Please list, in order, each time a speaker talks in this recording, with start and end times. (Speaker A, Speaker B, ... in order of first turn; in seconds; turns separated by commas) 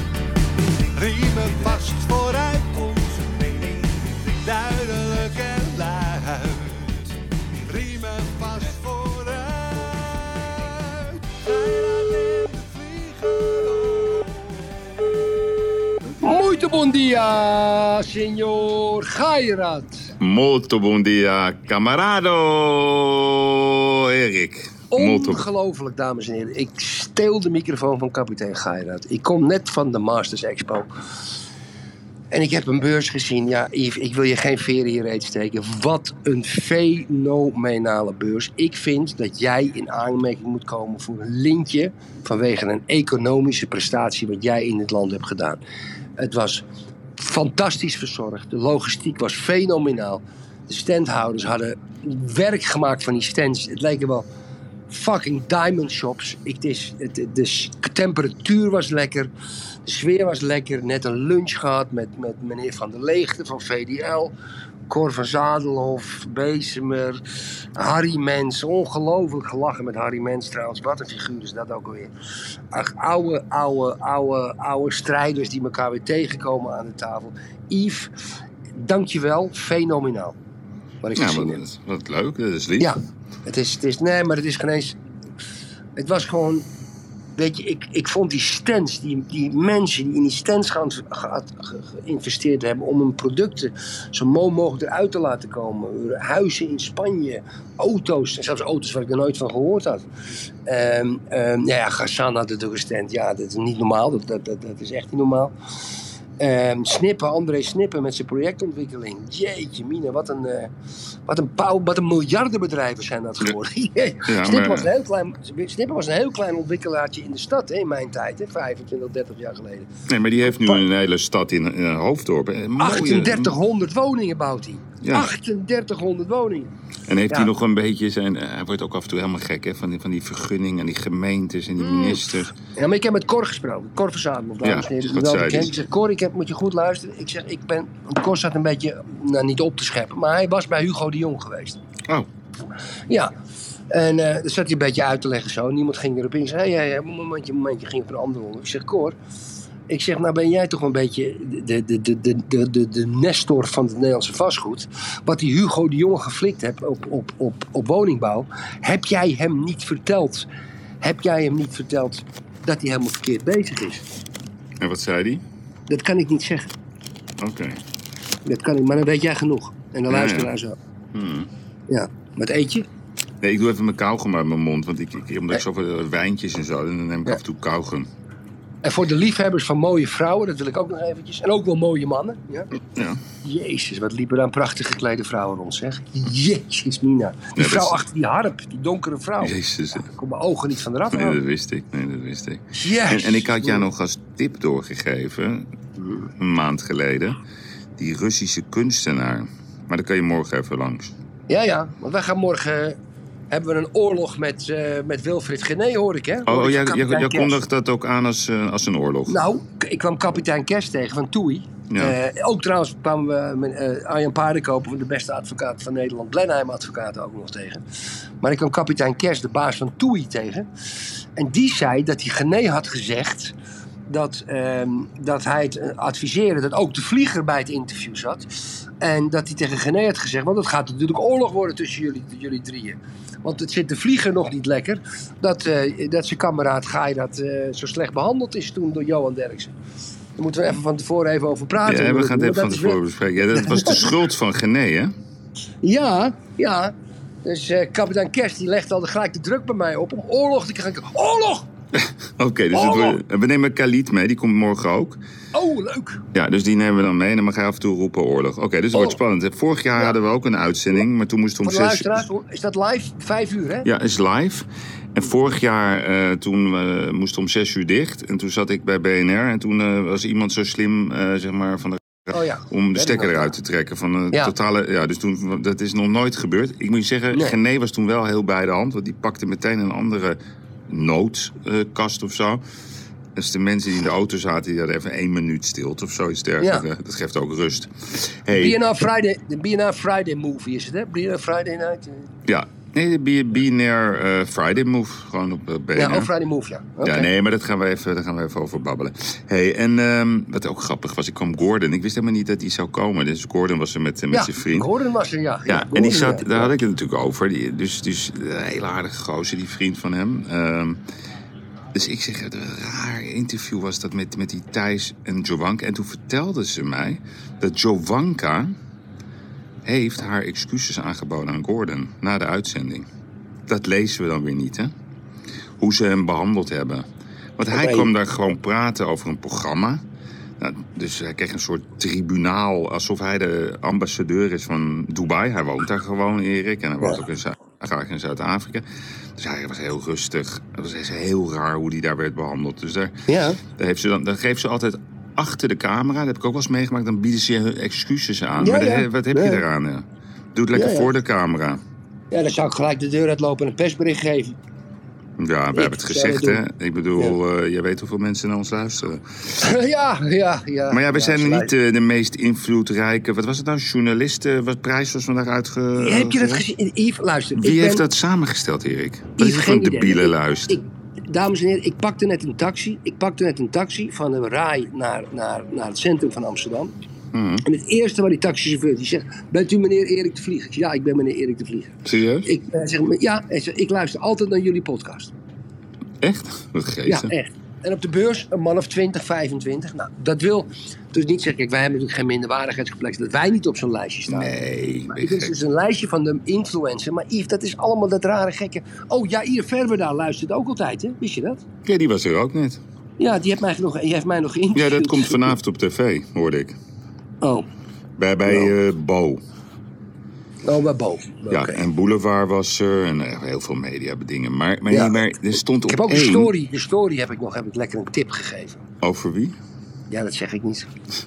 Speaker A: 0.6-7.1, Speaker A: 7.7-14.6, Speaker B: 16.2-20.1, Speaker C: 20.2-25.4, Speaker B: 24.9-30.9, Speaker B: 32.3-45.6, Speaker B: 46.2-46.6, Speaker B: 47.2-54.2, Speaker B: 54.9-59.3, Speaker B: 59.8-64.3, Speaker B: 64.9-67.2, Speaker B: 67.8-72.1, Speaker B: 72.7-78.1, Speaker B: 78.7-80.3, Speaker B: 81.0-81.6, Speaker C: 81.1-82.9, Speaker B: 82.8-85.0, Speaker B: 86.0-86.7, Speaker B: 87.3-100.0, Speaker B: 100.7-105.5, Speaker B: 106.4-110.7, Speaker B: 111.2-119.9, Speaker C: 114.3-114.9, Speaker C: 120.1-123.5, Speaker B: 120.5-120.8, Speaker B: 122.8-126.7, Speaker C: 125.0-125.3, Speaker C: 127.1-132.5, Speaker B: 131.8-141.8, Speaker C: 134.6-135.7, Speaker B: 143.9-149.2, Speaker B: 149.9-160.5, Speaker B: 161.0-164.0, Speaker C: 164.8-165.4, Speaker B: 165.9-166.7, Speaker C: 167.4-167.8, Speaker B: 168.4-170.8, Speaker C: 170.1-170.5, Speaker C: 171.1-171.5, Speaker B: 171.9-172.8, Speaker C: 173.4-178.1, Speaker B: 178.8-182.7, Speaker C: 182.9-183.2, Speaker B: 183.4-191.4, Speaker C: 187.6-188.0, Speaker C: 189.4-190.1, Speaker C: 191.1-195.7, Speaker B: 192.7-193.8, Speaker B: 196.0-196.3, Speaker C: 196.4-197.4, Speaker C: 198.0-201.1, Speaker B: 201.5-203.0, Speaker B: 203.5-207.6, Speaker C: 206.4-209.4, Speaker B: 209.3-217.8, Speaker C: 211.9-212.2, Speaker B: 218.4-220.7, Speaker B: 221.3-223.5, Speaker B: 224.1-228.5, Speaker B: 229.0-239.7, Speaker B: 240.4-244.1, Speaker C: 241.8-245.1, Speaker B: 245.8-251.7, Speaker C: 251.9-255.2, Speaker B: 252.7-253.2, Speaker B: 255.5-256.2, Speaker C: 256.3-262.2, Speaker B: 261.6-263.9, Speaker C: 263.8-282.6, Speaker B: 272.3-273.5, Speaker C: 283.3-288.8, Speaker B: 286.6-286.8, Speaker B: 288.5-292.3, Speaker C: 292.4-296.3, Speaker B: 295.9-297.3, Speaker C: 297.0-304.9, Speaker B: 304.3-306.8, Speaker C: 305.7-311.0, Speaker C: 311.9-318.7, Speaker C: 319.8-323.1, Speaker C: 323.7-324.9, Speaker C: 325.8-327.1, Speaker C: 327.6-330.0, Speaker B: 327.7-328.1, Speaker C: 330.6-338.8, Speaker C: 339.4-351.8, Speaker B: 343.3-343.6, Speaker B: 348.6-349.6, Speaker B: 350.7-351.1, Speaker B: 352.3-354.6, Speaker C: 355.4-359.7, Speaker B: 355.7-356.6, Speaker B: 359.6-361.7, Speaker C: 360.9-366.6, Speaker B: 365.9-368.0, Speaker C: 367.6-370.8, Speaker B: 369.4-376.9, Speaker C: 377.3-377.6, Speaker B: 377.6-385.3, Speaker C: 382.0-382.5, Speaker C: 386.2-387.3, Speaker B: 387.1-401.6, Speaker C: 394.3-395.6, Speaker C: 401.8-402.8, Speaker B: 403.2-405.5, Speaker C: 404.7-406.8, Speaker B: 407.4-407.6, Speaker C: 408.2-409.4, Speaker B: 408.5-408.7, Speaker B: 410.6-411.9, Speaker C: 411.5-416.5, Speaker B: 414.9-415.2, Speaker B: 415.8-418.8, Speaker C: 419.0-419.6, Speaker B: 420.1-420.9